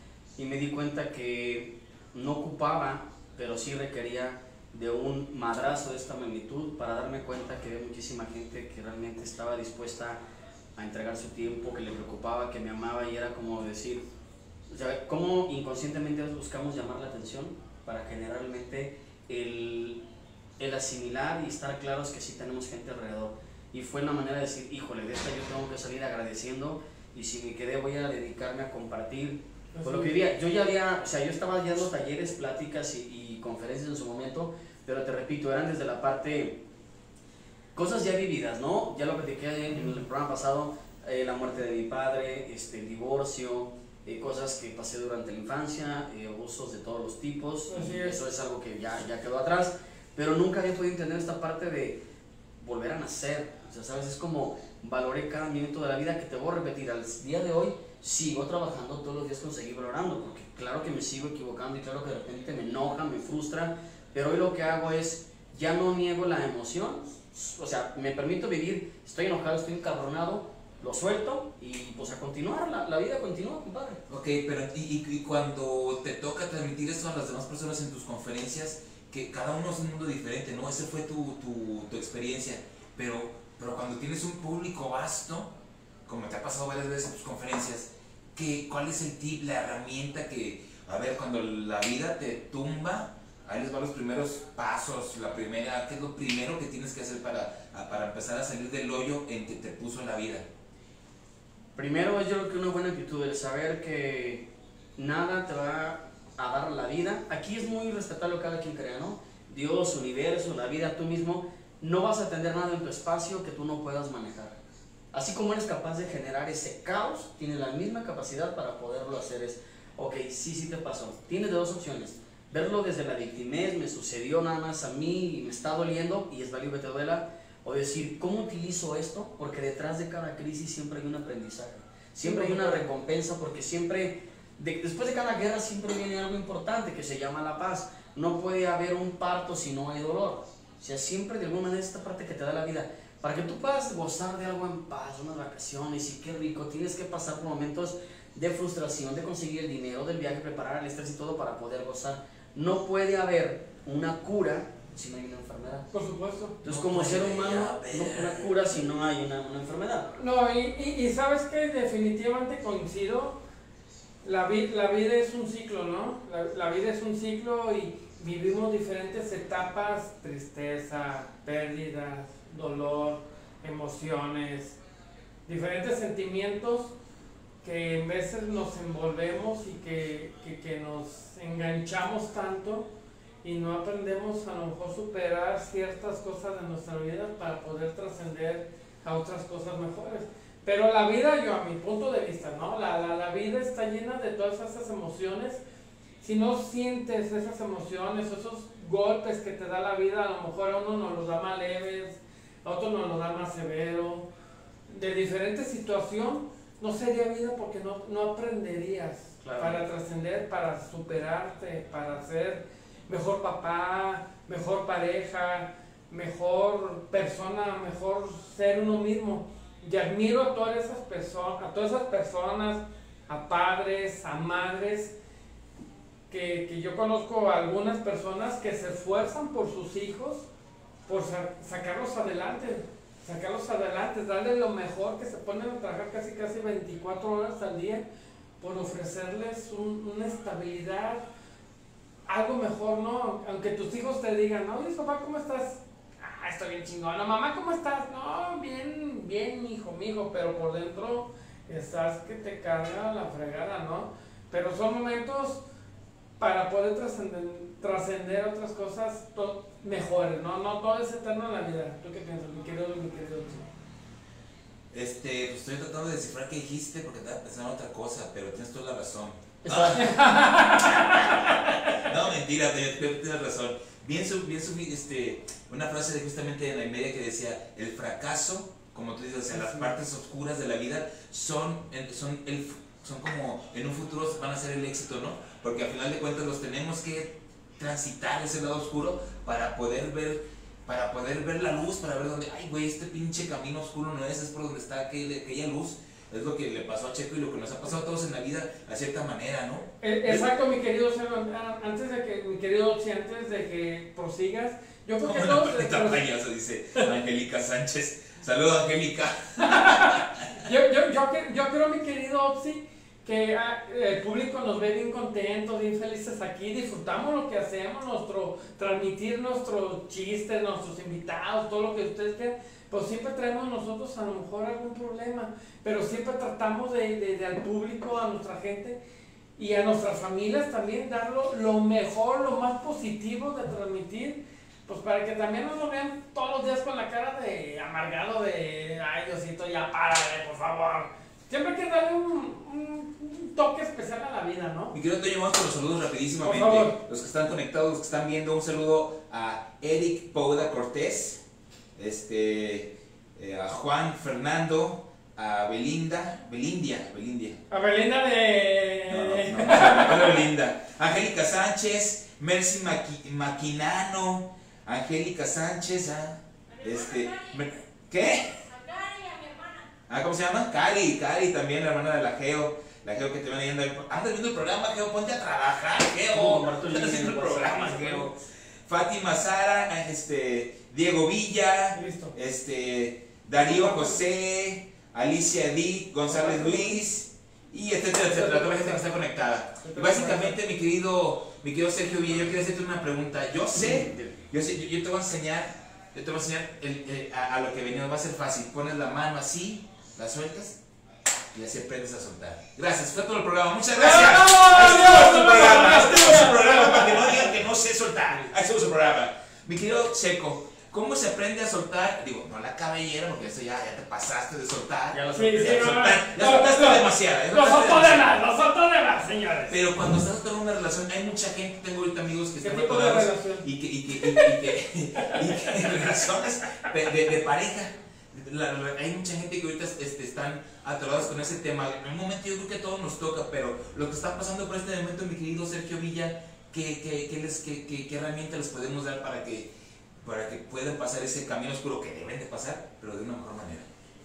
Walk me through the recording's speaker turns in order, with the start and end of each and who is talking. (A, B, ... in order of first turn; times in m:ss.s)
0:00.4-0:10.2 A
0:10.8-0:14.0 A
0:14.7-0:20.0 A
0:20.6-0:36.6 A
0:29.7-0:30.3 B
0:37.8-0:52.0 A
0:47.7-0:48.2 B
0:52.6-1:14.0 A
1:14.1-1:25.5 C
1:26.1-1:40.5 C
1:41.8-1:54.6 A
1:55.1-2:35.9 A
2:12.2-2:12.9 B
2:35.9-2:36.6 B
2:36.6-2:40.1 A
2:36.7-2:38.5 C
2:40.2-2:43.4 B
2:44.2-2:54.8 B
2:55.5-2:56.9 B
2:57.6-3:02.9 B
3:03.4-3:15.6 B
3:16.2-3:24.3 B
3:24.9-3:45.1 B
3:29.4-3:29.8 A
3:46.3-3:50.5 B
3:51.1-3:58.0 B
3:58.6-4:01.2 B
4:02.3-4:15.6 B
4:16.4-4:23.7 B
4:24.9-5:00.4 C
4:29.6-4:30.1 A
4:30.0-4:32.0 B
5:00.0-5:06.2 B
5:05.2-5:10.5 C
5:09.6-5:29.0 B
5:29.6-5:45.0 B
5:44.9-5:51.4 C
5:46.4-5:47.0 B
5:52.0-5:57.6 C
5:57.7-6:00.4 B
5:59.1-6:08.8 C
6:10.1-6:40.8 C
6:16.3-6:18.3 A
6:21.9-6:22.4 B
6:23.6-6:24.2 B
6:26.3-6:27.0 B
6:28.3-6:29.2 B
6:29.8-6:30.6 B
6:33.8-6:34.3 A
6:41.5-6:58.4 C
6:44.0-6:47.4 B
6:55.1-6:56.1 A
6:55.4-6:59.8 B
6:59.7-7:19.7 C
7:02.6-7:03.7 B
7:04.2-7:04.5 B
7:05.2-7:05.9 B
7:20.2-7:23.9 C